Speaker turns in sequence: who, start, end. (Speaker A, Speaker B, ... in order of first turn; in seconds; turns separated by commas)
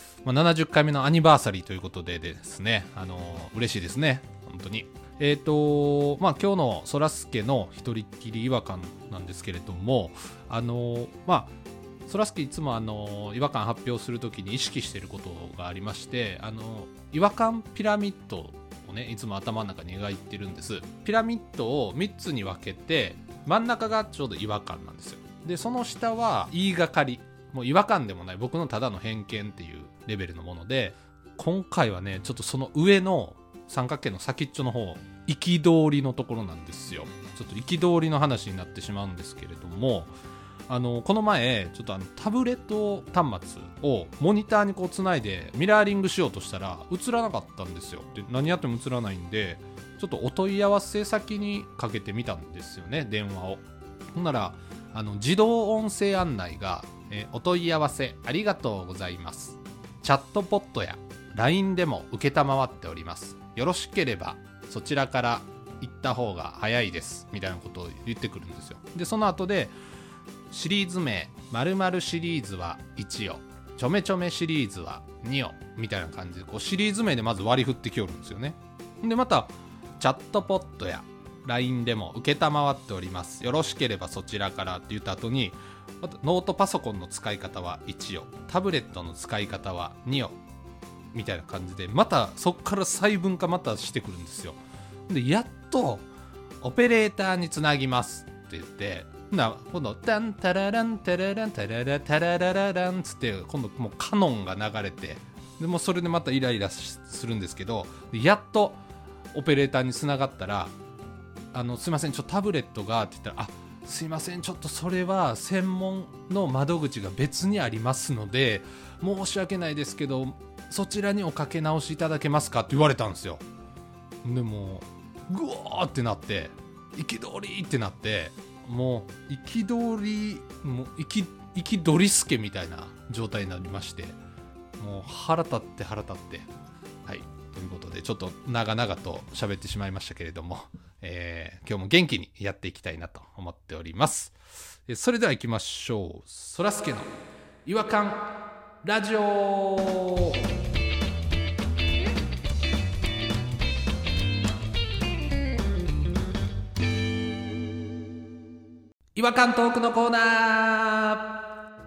Speaker A: 0.2-11.5, Speaker A: 12.1-40.1, Speaker A: 40.7-69.7, Speaker A: 70.5-90.4, Speaker A: 91.1-96.1, Speaker A: 96.6-108.8, Speaker A: 109.3-110.7, Speaker A: 111.5-123.4, Speaker A: 124.2-134.2, Speaker A: 134.8-136.5, Speaker A: 137.1-144.4, Speaker A: 144.9-147.1, Speaker A: 147.7-148.3, Speaker A: 148.8-150.4, Speaker A: 159.2-161.3